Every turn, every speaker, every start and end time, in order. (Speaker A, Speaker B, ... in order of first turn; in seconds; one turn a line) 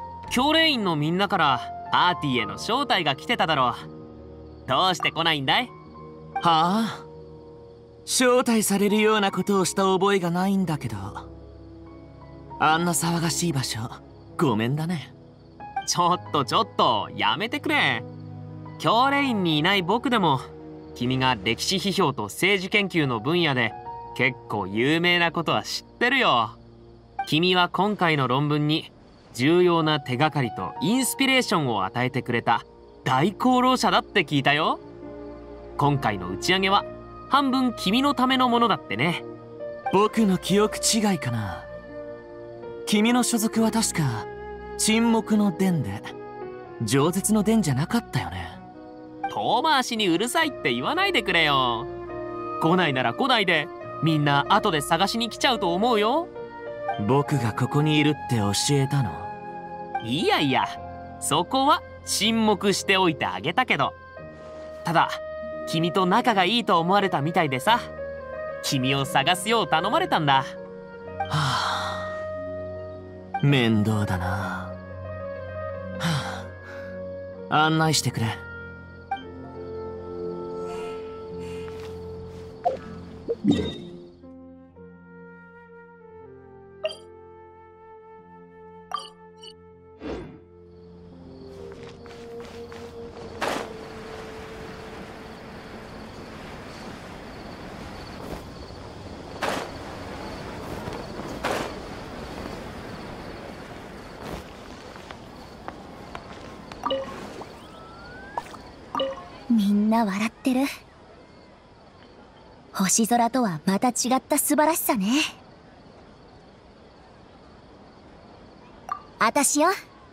Speaker A: 0.3-3.9
Speaker A: 4.7-5.7
Speaker B: 6.4-7.1
Speaker B: 8.1-11.3
Speaker B: 12.6-15.1
Speaker A: 15.9-18.1
Speaker A: 18.8-20.4
Speaker A: 20.9-26.6
Speaker A: 27.3-34.8
Speaker A: 35.8-39.2
Speaker B: 39.9-41.7
Speaker B: 42.9-46.1
Speaker B: 46.8-48.6
Speaker A: 49.3-51.9
Speaker A: 52.6-56.3
Speaker B: 57.0-59.3
Speaker A: 60.0-64.0
Speaker A: 64.8-67.9
Speaker A: 68.6-70.5
Speaker B: 71.3-71.9
Speaker B: 73.4-74.7
Speaker B: 77.5-78.4
Speaker C: 109.5-110.7
Speaker C: 112.8-115.2
Speaker C: 119.2-119.7